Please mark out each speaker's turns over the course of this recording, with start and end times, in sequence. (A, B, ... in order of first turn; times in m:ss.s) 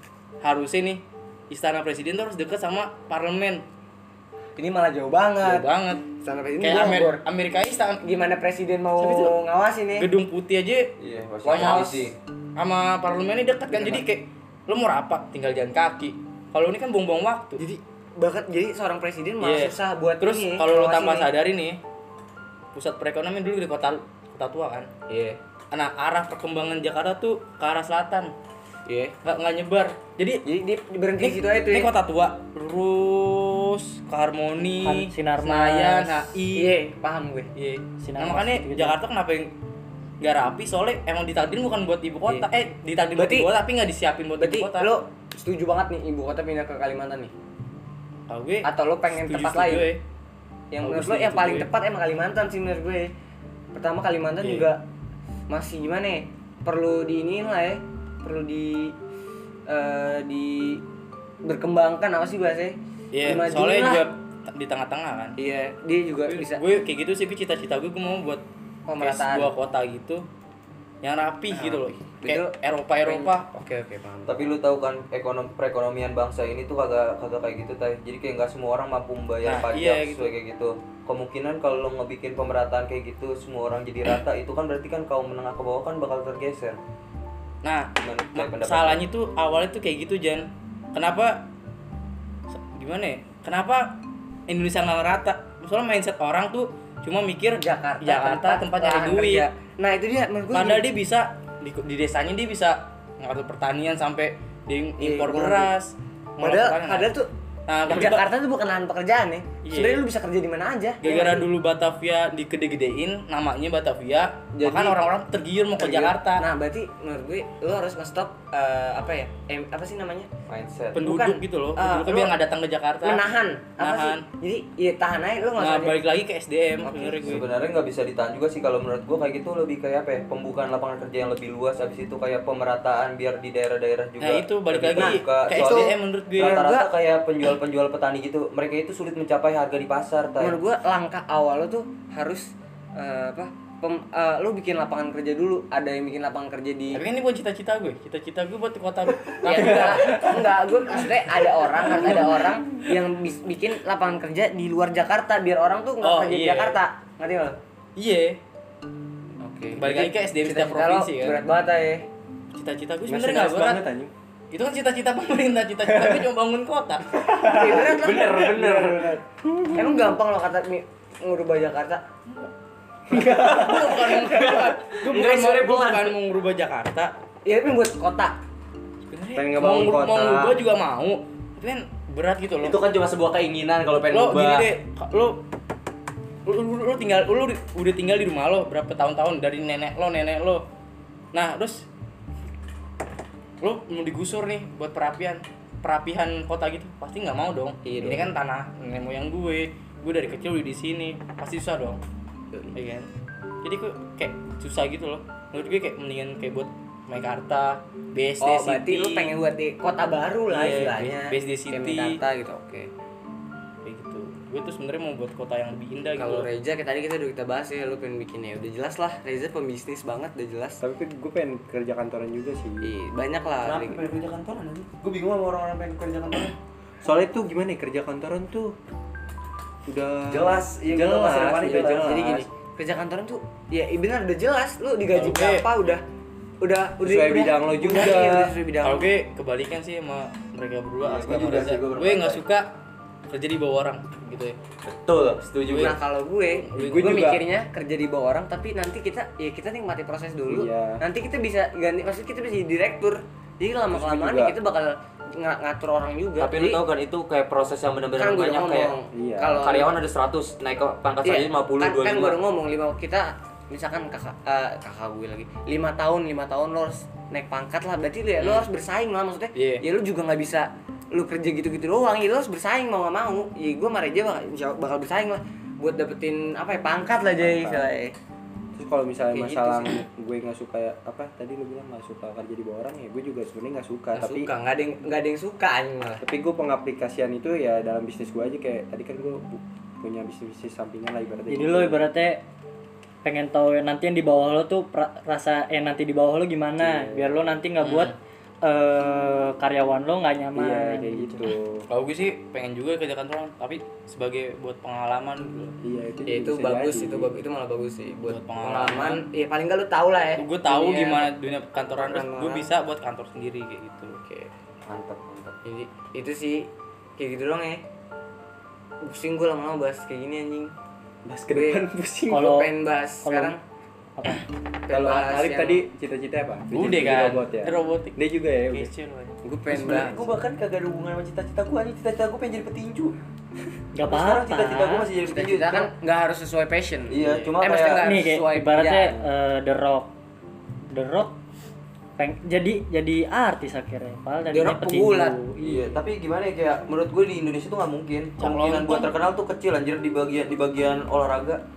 0:00.4-0:03.6 A
0:04.6-0:05.7 B
0:05.4-0:06.1 A
0:06.2-0:07.2 B
0:06.6-0:08.0 A
0:08.0-0:10.1 B
0:09.0-0:09.4 A
0:09.9-0:10.8 A
0:11.0-0:12.2 C
0:11.4-0:12.2 B
0:11.5-0:12.0 A
0:12.6-0:17.6 A
0:13.7-0:14.0 B
0:17.6-0:21.3 B
0:19.4-0:21.8 A
0:22.7-0:24.9 A
0:25.1-0:25.4 B
0:25.7-0:28.3 A
0:28.9-0:29.2 B
0:29.2-0:30.4 A
0:30.5-0:31.9 B
0:31.2-0:36.8 A
0:34.8-0:36.3 D
0:36.6-0:37.5 B
0:37.6-0:39.5 A
0:38.0-0:39.0 D
0:40.2-0:44.9 A
0:43.2-0:43.5 B
0:44.4-0:47.3 B
0:48.3-0:50.0 A
0:48.6-0:49.9 B
0:50.7-0:53.1 B
0:50.8-0:51.7 A
0:53.7-0:54.8 B
0:54.4-0:54.7 A
0:55.5-0:59.0 B
0:59.7-1:00.8 B
1:01.4-1:04.0 B
1:03.1-1:05.4 A
1:05.4-1:06.6 B
1:06.3-1:08.4 A
1:08.9-1:09.5 B
1:09.0-1:10.2 A
1:11.0-1:13.5 A
1:11.5-1:14.5 B
1:14.3-1:26.8 C
1:19.4-1:20.3 A
1:27.6-1:31.4 A
1:28.0-1:29.0 C
1:32.5-1:39.5 A
1:37.6-1:40.8 B
1:40.5-1:47.1 A
1:45.0-1:45.7 B
1:46.4-1:47.3 B
1:47.7-1:48.3 A
1:47.9-1:51.5 B
1:49.6-1:50.0 A
1:51.0-1:56.5 A
1:54.5-1:55.0 B
1:55.8-2:00.3 B
2:00.5-2:01.0 C
2:01.0-2:03.3 A
2:01.0-2:02.4 B
2:03.0-2:06.0 B
2:03.8-2:04.3 A
2:05.6-2:07.5 A
2:06.8-2:07.4 B
2:07.2-2:20.6 C
2:14.2-2:16.6 A
2:15.0-2:16.9 B
2:20.4-2:27.0 B
2:26.9-2:30.4 A
2:29.4-2:37.6 B
2:31.8-2:32.2 A
2:36.0-2:36.8 A
2:38.0-2:38.4 A
2:39.4-2:42.1 B
2:39.8-2:41.4 A
2:42.5-2:43.8 A
2:43.1-2:44.1 E
2:44.5-2:47.2 A
2:45.9-2:46.3 E
2:47.1-2:50.0 E
2:47.4-2:49.2 B
2:48.1-2:48.4 C
2:49.7-2:52.0 B
2:53.1-2:54.0 E
2:53.2-2:56.1 B
2:53.3-2:57.1 A
2:55.2-2:55.7 C
2:57.4-2:58.4 B
2:59.1-3:02.8 A
2:59.3-3:00.6 E
3:02.6-3:04.7 C
3:04.1-3:05.4 A
3:06.5-3:10.6 A
3:11.3-3:11.9 A
3:13.6-3:22.0 A
3:17.8-3:18.2 B
3:22.7-3:23.1 A
3:23.6-3:29.3 A
3:28.4-3:32.9 B
3:30.5-3:32.2 A
3:33.8-3:36.5 A
3:36.2-3:40.8 B
3:40.8-3:42.9 E
3:42.8-3:44.0 B
3:43.6-3:45.0 C
3:45.0-3:48.7 E
3:49.9-3:52.5 E
3:50.3-3:52.4 C
3:51.6-3:56.0 B
3:55.1-3:55.7 A
3:56.6-3:59.1 B
3:57.0-3:58.5 E
3:58.8-4:02.7 A
4:01.0-4:02.4 C
4:03.3-4:04.6 A
4:04.9-4:06.0 C
4:05.6-4:06.0 A
4:05.8-4:16.8 B
4:06.6-4:07.4 A
4:06.7-4:07.4 E
4:10.5-4:11.0 E
4:13.9-4:14.5 E
4:16.4-4:19.0 C
4:18.2-4:19.9 B
4:19.1-4:19.7 E
4:19.6-4:22.4 C
4:21.2-4:38.1 B
4:28.4-4:28.7 A
4:29.6-4:29.8 A
4:37.4-4:37.9 E
4:38.8-4:44.5 E
4:39.3-4:40.0 B
4:44.2-4:46.2 B
4:46.2-4:52.0 E
4:51.5-4:52.4 D
4:53.2-5:01.5 D
4:56.8-4:57.3 E
4:57.8-4:58.1 A
5:00.6-5:01.9 E
5:01.9-5:05.8 A
5:05.8-5:07.4 E
5:06.3-5:11.4 B
5:08.3-5:09.2 A
5:10.4-5:14.2 A
5:12.0-5:12.7 B
5:14.2-5:14.5 B
5:14.9-5:15.6 C
5:15.6-5:17.8 B
5:19.0-5:20.7 B
5:21.2-5:22.4 E
5:21.5-5:23.6 B
5:22.3-5:22.7 D
5:23.2-5:23.5 D
5:24.2-5:24.4 D
5:24.9-5:25.9 B
5:24.9-5:28.9 E
5:26.7-5:29.4 A
5:29.4-5:30.2 B
5:29.7-5:33.2 C
5:34.0-5:35.1 D
5:34.0-5:35.9 C
5:35.2-5:39.2 B
5:37.1-5:38.1 C
5:37.2-5:37.5 A
5:38.0-5:40.1 D
5:40.9-5:41.4 D
5:42.2-5:45.9 D
5:44.5-5:45.4 B
5:45.6-5:51.6 C
5:48.4-5:49.1 A